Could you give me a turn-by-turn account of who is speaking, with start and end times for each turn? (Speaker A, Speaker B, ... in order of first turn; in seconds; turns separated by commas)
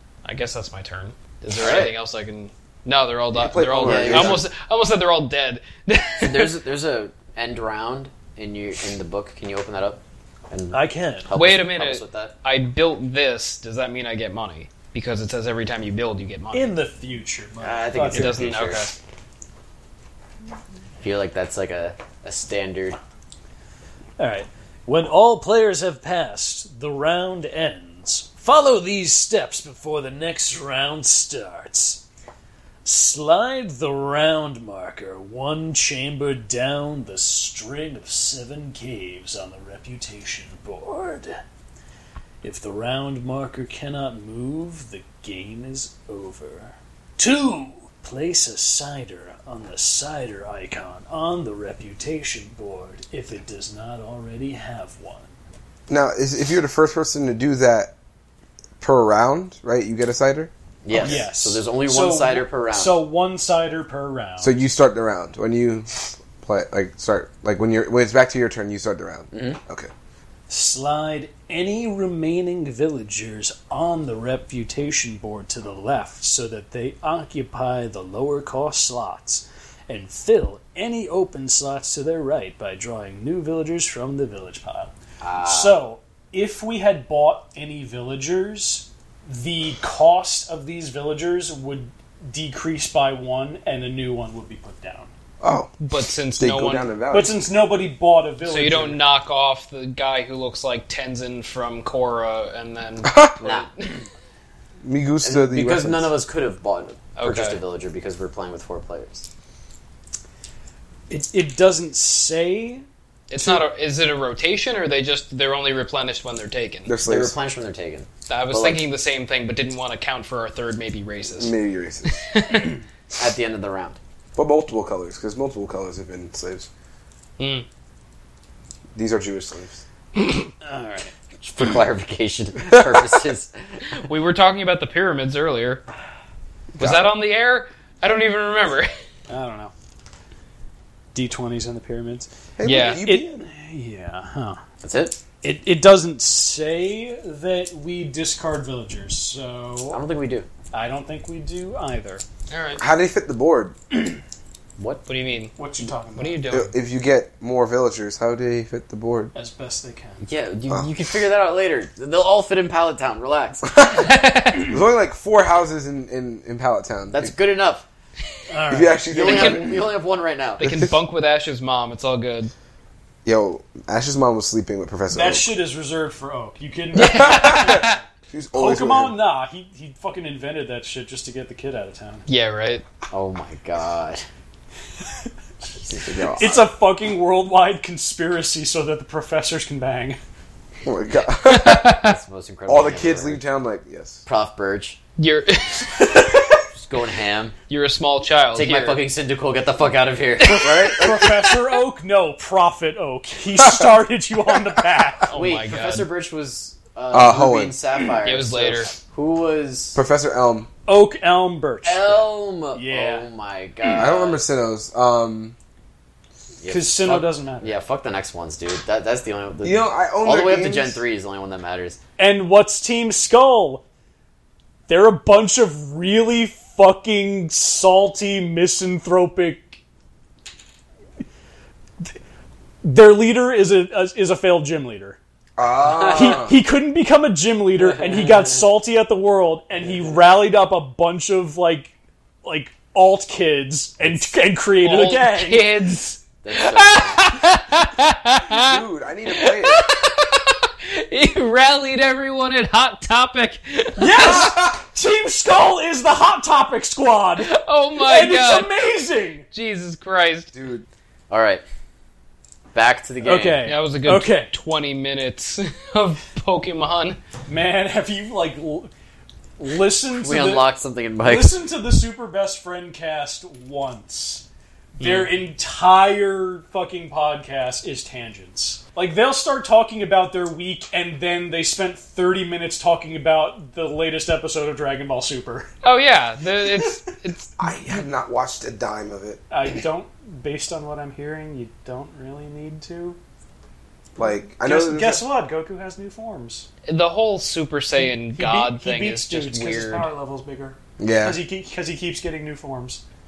Speaker A: 0.2-6.5, Speaker B: 1.4-1.9, Speaker C: 3.3-4.5, Speaker B: 3.8-4.5, Speaker B: 6.2-12.3, Speaker D: 10.7-11.3, Speaker A: 11.3-16.7, Speaker D: 16.5-18.4, Speaker B: 17.6-18.8, Speaker A: 18.1-18.9, Speaker B: 21.0-23.0, Speaker D: 24.2-32.0, Speaker D: 32.8-41.4, Speaker D: 42.4-55.3, Speaker C: 55.9-57.9, Speaker C: 58.8-61.2, Speaker B: 60.8-63.0, Speaker D: 60.9-64.6, Speaker C: 64.4-69.9, Speaker B: 69.3-69.6, Speaker D: 70.5-95.1, Speaker B: 85.2-85.8, Speaker C: 95.4-95.7, Speaker A: 95.8-96.9, Speaker C: 96.4-97.3, Speaker D: 97.1-99.0, Speaker A: 98.4-104.0, Speaker C: 103.0-103.4, Speaker B: 103.4-103.7, Speaker C: 104.8-106.1, Speaker B: 105.2-109.3, Speaker A: 107.2-107.6, Speaker D: 111.1-112.8, Speaker A: 113.3-116.9, Speaker C: 116.9-117.3, Speaker B: 117.0-118.8, Speaker A: 118.3-121.5, Speaker C: 121.4-122.2, Speaker A: 122.0-122.8, Speaker B: 123.2-124.0, Speaker C: 124.4-126.7, Speaker A: 127.4-127.6, Speaker C: 128.9-129.8, Speaker D: 130.6-131.1, Speaker B: 131.4-133.8, Speaker A: 133.9-135.8, Speaker C: 136.7-137.1, Speaker A: 136.8-138.9, Speaker D: 139.3-139.7, Speaker D: 141.1-142.3, Speaker C: 142.6-143.4, Speaker A: 142.6-143.0, Speaker D: 142.9-144.6, Speaker B: 144.8-145.2, Speaker D: 145.4-150.0, Speaker B: 149.9-150.5, Speaker D: 150.7-152.2, Speaker A: 152.5-152.8, Speaker C: 152.8-153.8, Speaker B: 154.8-155.0, Speaker A: 155.1-155.6, Speaker D: 155.6-156.4, Speaker A: 156.1-156.7, Speaker C: 156.5-159.3, Speaker D: 159.3-160.3, Speaker B: 160.2-163.7, Speaker A: 163.8-164.8, Speaker C: 164.6-167.3, Speaker B: 167.1-167.9, Speaker D: 168.5-169.1, Speaker C: 168.7-169.8, Speaker B: 169.1-170.6, Speaker A: 169.1-169.8, Speaker A: 170.6-172.5, Speaker C: 170.6-170.9, Speaker C: 173.2-175.5, Speaker D: 175.1-178.0, Speaker A: 176.9-178.0, Speaker C: 177.0-179.1, Speaker D: 178.5-182.3, Speaker A: 182.3-182.8, Speaker B: 183.1-184.2, Speaker B: 185.8-186.6, Speaker C: 185.9-186.6, Speaker D: 186.4-190.2, Speaker C: 190.8-192.0, Speaker A: 191.4-192.2, Speaker B: 191.9-193.4, Speaker C: 192.7-194.2, Speaker B: 194.3-195.0, Speaker A: 195.2-196.5, Speaker B: 196.7-197.6, Speaker A: 197.7-199.0, Speaker B: 198.5-200.7, Speaker A: 200.4-200.9, Speaker C: 200.5-201.4, Speaker D: 200.9-205.4, Speaker C: 203.6-203.9, Speaker A: 205.3-206.1, Speaker B: 205.3-210.0, Speaker C: 207.1-207.8, Speaker A: 208.2-208.9, Speaker C: 209.9-210.7, Speaker D: 210.9-213.2, Speaker B: 211.8-214.4, Speaker C: 213.9-215.6, Speaker B: 216.6-222.0, Speaker D: 216.7-217.8, Speaker C: 219.6-221.0, Speaker D: 222.2-223.8, Speaker D: 224.9-229.8, Speaker D: 232.8-235.2, Speaker C: 235.6-236.6, Speaker B: 235.9-236.4, Speaker D: 236.1-245.7, Speaker B: 238.0-238.3, Speaker A: 244.8-254.5, Speaker B: 246.4-247.4, Speaker C: 248.5-249.8, Speaker D: 254.0-259.4, Speaker C: 254.2-254.8, Speaker A: 257.4-258.8, Speaker A: 259.5-260.5, Speaker C: 260.5-260.9, Speaker B: 261.3-261.6, Speaker B: 262.7-263.6, Speaker D: 263.2-264.5, Speaker A: 263.6-267.2, Speaker D: 267.5-268.9, Speaker D: 269.6-270.7, Speaker B: 270.1-271.6, Speaker D: 271.2-274.4, Speaker D: 275.0-285.7, Speaker A: 275.0-275.3, Speaker A: 285.8-287.5, Speaker C: 287.6-289.4, Speaker D: 289.5-293.2, Speaker C: 294.1-295.2, Speaker D: 294.6-296.7, Speaker A: 296.9-300.1, Speaker D: 297.9-303.0, Speaker C: 301.0-301.4